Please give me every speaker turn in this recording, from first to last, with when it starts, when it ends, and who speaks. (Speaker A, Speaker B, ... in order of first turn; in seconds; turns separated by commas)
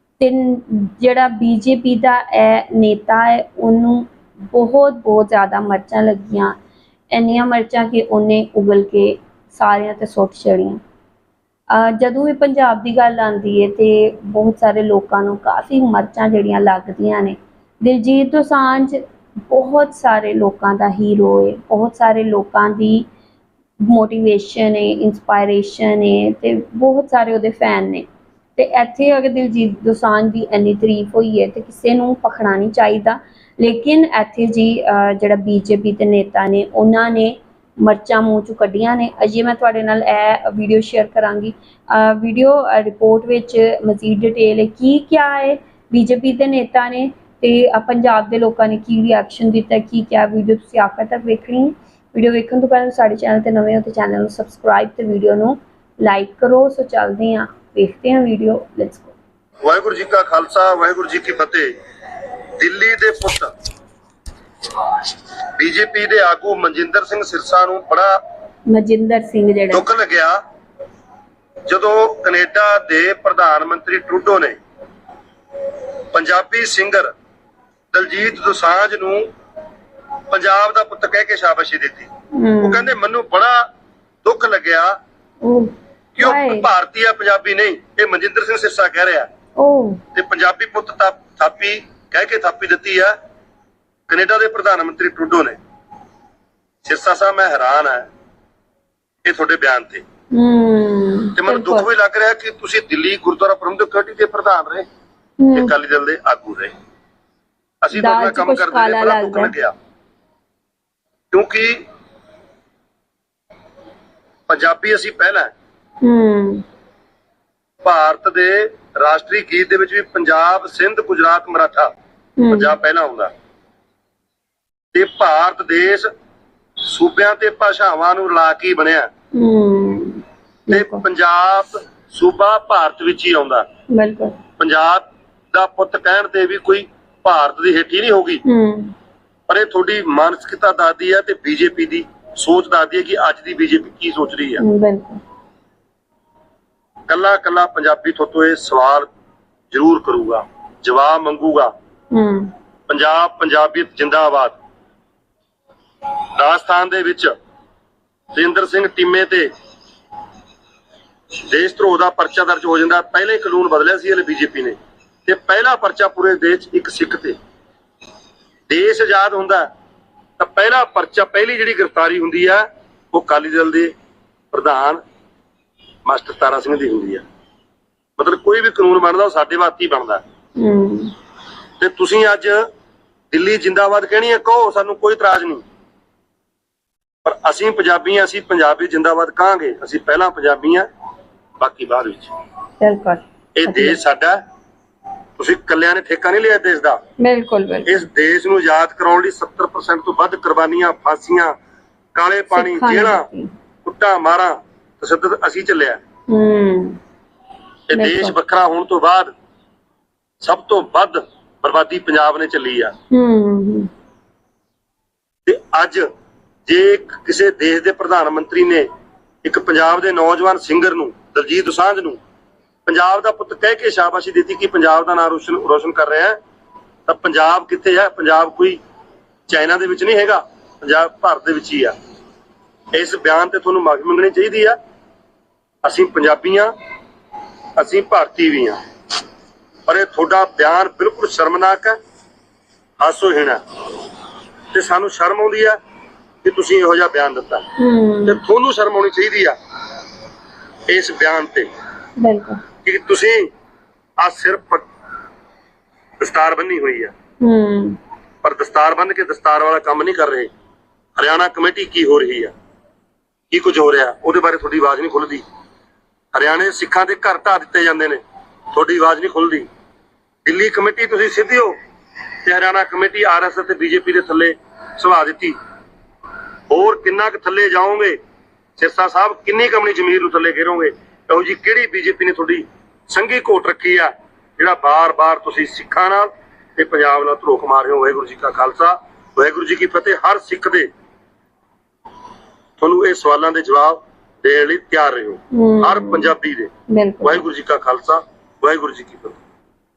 Speaker A: 0.2-6.6, Speaker A: 7.1-10.8, Speaker A: 11.7-23.1, Speaker A: 23.8-59.1, Speaker B: 59.6-61.7, Speaker B: 62.6-63.5, Speaker B: 65.5-68.1, Speaker A: 68.7-69.9, Speaker B: 69.7-70.4, Speaker B: 71.7-74.6, Speaker B: 76.1-77.1, Speaker B: 77.9-79.3, Speaker B: 80.3-82.1, Speaker A: 82.3-83.0, Speaker B: 82.6-83.7, Speaker B: 84.2-85.0, Speaker A: 85.4-86.7, Speaker B: 86.2-89.3, Speaker A: 89.6-90.0, Speaker B: 90.2-93.2, Speaker B: 94.1-95.6, Speaker B: 96.8-98.1, Speaker B: 99.2-100.0, Speaker A: 100.3-101.9, Speaker B: 101.4-104.9, Speaker A: 105.4-105.7, Speaker B: 105.5-106.7, Speaker B: 107.8-109.8, Speaker A: 107.9-109.5, Speaker B: 111.3-111.8, Speaker B: 114.5-115.5, Speaker A: 116.0-116.7, Speaker B: 117.8-121.9, Speaker A: 122.4-122.8, Speaker B: 122.5-123.3, Speaker B: 124.9-126.1, Speaker B: 126.8-129.1, Speaker A: 129.3-131.0, Speaker B: 130.7-133.7, Speaker A: 133.9-134.4, Speaker B: 134.6-138.4, Speaker A: 138.4-138.9, Speaker B: 139.5-144.6, Speaker A: 144.6-145.2, Speaker B: 147.1-149.1, Speaker B: 149.7-151.7, Speaker A: 152.1-152.5, Speaker B: 152.9-154.6, Speaker B: 156.3-157.3, Speaker B: 158.3-159.5, Speaker B: 161.4-167.4, Speaker B: 168.7-169.7, Speaker B: 170.4-173.9, Speaker B: 174.5-175.0, Speaker B: 176.1-177.2, Speaker B: 178.2-180.2, Speaker A: 180.6-181.1, Speaker B: 181.8-182.7, Speaker B: 183.3-185.6, Speaker B: 187.2-190.9, Speaker B: 191.6-192.3, Speaker A: 192.8-194.0, Speaker B: 193.6-194.4, Speaker B: 195.4-197.0, Speaker A: 197.2-198.1, Speaker B: 197.9-201.6, Speaker B: 202.2-203.3, Speaker A: 202.5-203.5, Speaker B: 203.8-206.0, Speaker A: 206.3-207.0, Speaker B: 207.9-209.3, Speaker A: 207.9-208.3, Speaker B: 210.4-212.9, Speaker A: 213.1-213.9, Speaker B: 215.5-216.1, Speaker B: 216.7-218.9, Speaker B: 219.4-222.2, Speaker B: 222.9-226.4, Speaker B: 227.1-228.8, Speaker B: 229.5-232.0, Speaker B: 232.9-234.8, Speaker B: 235.8-236.7, Speaker B: 237.8-238.8, Speaker B: 239.9-242.0, Speaker B: 243.0-243.6, Speaker B: 244.7-245.8, Speaker B: 246.4-247.7, Speaker A: 247.8-248.4, Speaker B: 248.3-249.6, Speaker B: 250.9-251.7, Speaker A: 252.2-252.6, Speaker B: 252.8-253.5, Speaker B: 254.2-254.9, Speaker B: 256.2-257.1, Speaker A: 257.4-258.0, Speaker B: 258.4-260.5, Speaker B: 261.2-262.5, Speaker B: 263.5-265.4, Speaker B: 266.3-268.2, Speaker B: 268.7-269.7, Speaker B: 270.4-271.8, Speaker B: 272.4-275.6, Speaker B: 276.7-278.2, Speaker B: 278.8-290.9, Speaker B: 292.8-296.7, Speaker A: 295.5-296.3, Speaker A: 296.9-297.4, Speaker B: 297.2-299.4